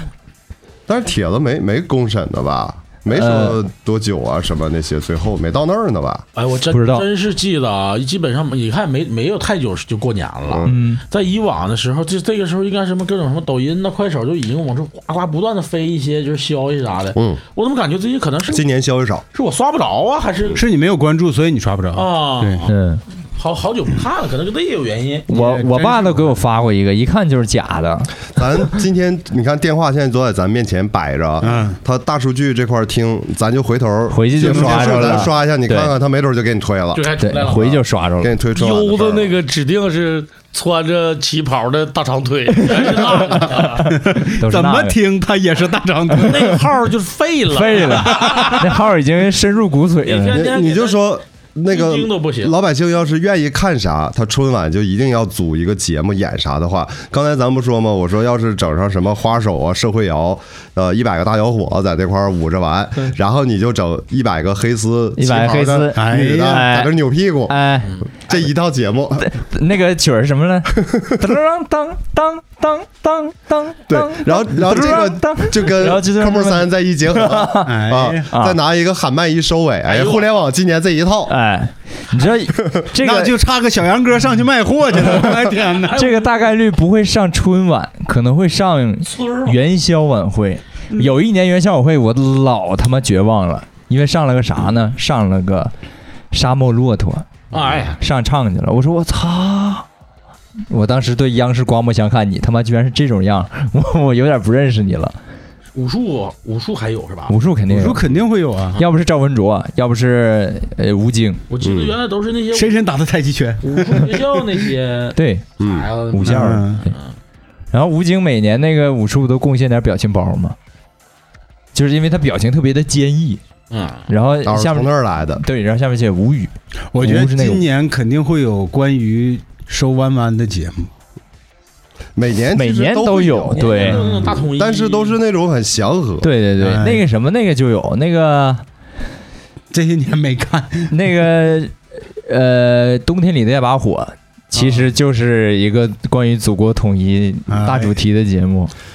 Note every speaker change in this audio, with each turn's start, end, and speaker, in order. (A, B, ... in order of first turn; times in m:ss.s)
0:00.9-0:06.2 A
0:03.1-0:03.6 B
0:06.4-0:18.6 C
0:06.7-0:07.0 B
0:10.5-0:10.8 A
0:10.7-0:11.0 B
0:17.2-0:17.4 A
0:18.5-0:19.2 A
0:19.3-0:20.6 C
0:20.6-0:22.6 D
0:21.9-0:22.7 C
0:22.7-0:23.0 B
0:23.4-0:25.3 C
0:25.3-0:28.2 B
0:25.3-0:26.4 D
0:28.4-0:37.1 A
0:31.4-0:31.8 D
0:34.1-0:35.9 B
0:34.4-0:35.3 D
0:36.9-0:37.8 C
0:37.2-0:38.4 B
0:38.2-0:39.4 A
0:38.5-0:43.6 E
0:42.6-0:43.9 C
0:43.9-0:46.7 D
0:44.3-0:45.0 B
0:46.1-0:48.4 E
0:47.5-0:50.5 B
0:48.1-0:48.6 D
0:50.0-0:51.1 C
0:50.3-1:07.6 A
0:51.7-0:52.5 C
1:05.2-1:06.9 B
1:06.0-1:06.7 D
1:07.5-1:08.0 B
1:08.3-1:09.3 A
1:09.2-1:17.8 B
1:10.9-1:11.2 A
1:13.9-1:21.4 A
1:17.6-1:18.3 D
1:18.3-1:18.6 B
1:19.9-1:20.4 C
1:21.3-1:23.3 B
1:22.5-1:23.1 A
1:23.0-1:26.0 D
1:25.8-1:26.5 C
1:25.9-1:35.7 B
1:29.1-1:29.6 E
1:36.3-1:37.3 B
1:37.5-1:38.0 C
1:37.9-1:39.9 B
1:40.7-1:45.2 B
1:45.7-1:47.4 C
1:47.3-1:48.0 B
1:47.7-1:48.8 D
1:48.8-1:51.4 B
1:51.5-1:52.8 C
1:51.6-1:52.0 A
1:52.5-1:54.5 D
1:53.6-1:57.1 C
1:55.2-1:55.5 B
1:55.6-1:55.9 A
1:56.1-1:56.8 B
1:56.2-1:56.8 D
1:57.7-2:00.6 B
2:01.7-2:03.4 B
2:03.7-2:04.1 C
2:04.1-2:07.7 B
2:04.4-2:05.4 A
2:06.9-2:10.9 D
2:12.2-2:16.3 A
2:12.5-2:14.0 B
2:13.5-2:15.2 C
2:16.2-2:18.6 B
2:16.6-2:17.0 D
2:19.7-2:20.9 D
2:20.9-2:28.7 B
2:24.5-2:24.9 D
2:27.5-2:28.0 D